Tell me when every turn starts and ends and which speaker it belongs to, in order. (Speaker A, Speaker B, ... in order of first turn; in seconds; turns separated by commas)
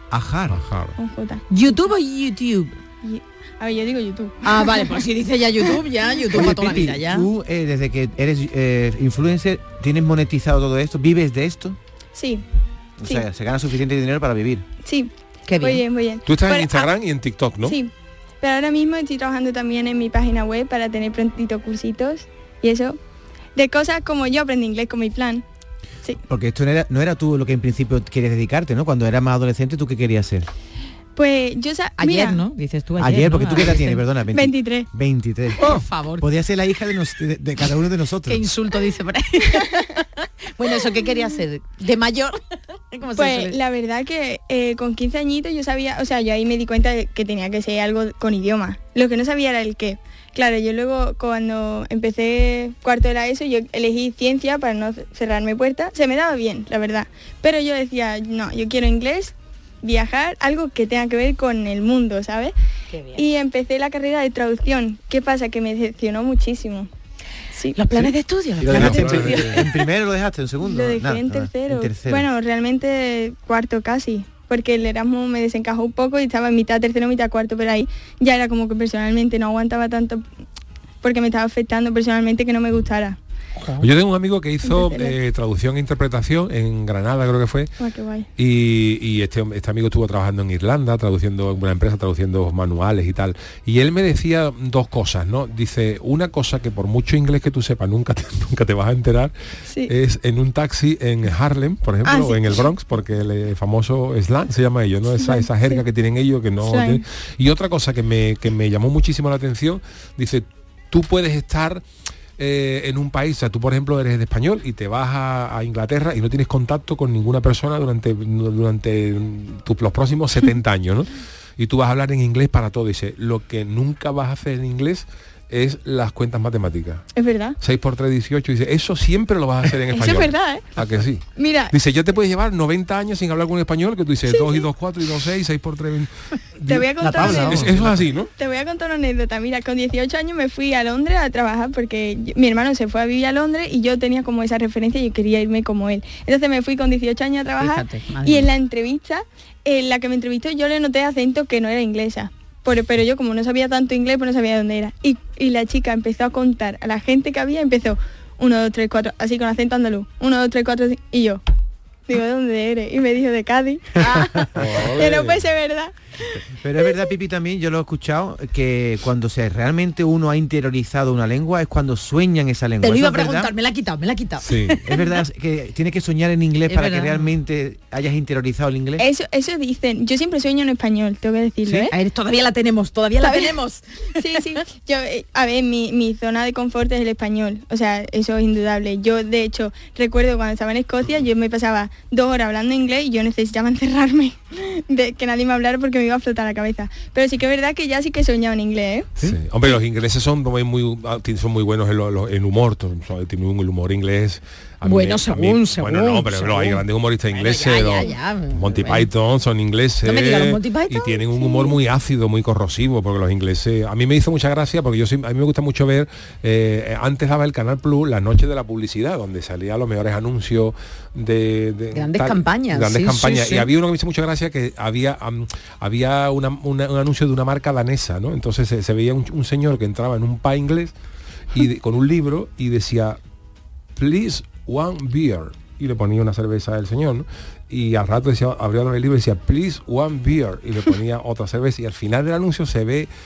Speaker A: 0.1-0.6, Speaker B: 0.5-0.9, Speaker C: 1.0-1.4, Speaker D: 1.5-2.7, Speaker C: 3.0-5.0, Speaker D: 4.4-7.3, Speaker A: 6.3-11.8, Speaker C: 12.1-12.4, Speaker A: 13.0-14.6, Speaker C: 14.8-16.9, Speaker D: 15.5-15.8, Speaker B: 16.2-17.8, Speaker C: 17.6-23.0, Speaker C: 23.6-25.4, Speaker A: 26.3-30.5, Speaker C: 31.1-32.4, Speaker D: 32.0-34.0, Speaker A: 33.0-38.4, Speaker C: 34.3-34.9, Speaker D: 35.6-36.2, Speaker D: 38.3-42.4, Speaker C: 41.1-41.4, Speaker D: 42.9-43.6, Speaker C: 43.1-62.5, Speaker D: 62.9-63.2, Speaker C: 63.1-66.9, Speaker C: 67.5-67.8, Speaker D: 67.7-69.7, Speaker A: 68.6-72.2, Speaker B: 68.7-69.3, Speaker C: 68.7-69.4, Speaker C: 70.6-80.2, Speaker C: 81.0-83.2, Speaker B: 83.8-87.7, Speaker C: 84.6-85.2, Speaker C: 87.8-88.3, Speaker B: 88.4-99.3, Speaker B: 99.9-111.8, Speaker C: 102.0-102.7, Speaker C: 105.2-105.8, Speaker C: 106.6-107.0, Speaker B: 112.4-127.1, Speaker C: 127.1-127.6, Speaker B: 127.6-138.3, Speaker C: 129.9-130.8, Speaker C: 131.4-131.7, Speaker C: 134.3-134.7, Speaker C: 136.7-137.8, Speaker A: 137.0-138.0, Speaker C: 138.4-161.4, Speaker D: 147.6-148.5, Speaker C: 162.1-167.0, Speaker B: 164.6-165.4, Speaker A: 166.6-173.5, Speaker D: 172.8-174.5, Speaker B: 174.4-174.8, Speaker A: 174.8-179.1, Speaker D: 176.7-177.2, Speaker C: 179.0-181.9, Speaker D: 181.9-184.2, Speaker C: 183.2-183.6, Speaker C: 184.2-199.1, Speaker B: 199.2-230.9, Speaker D: 204.8-209.1, Speaker D: 210.0-211.8, Speaker D: 221.9-223.7, Speaker B: 231.5-233.2, Speaker B: 233.9-243.1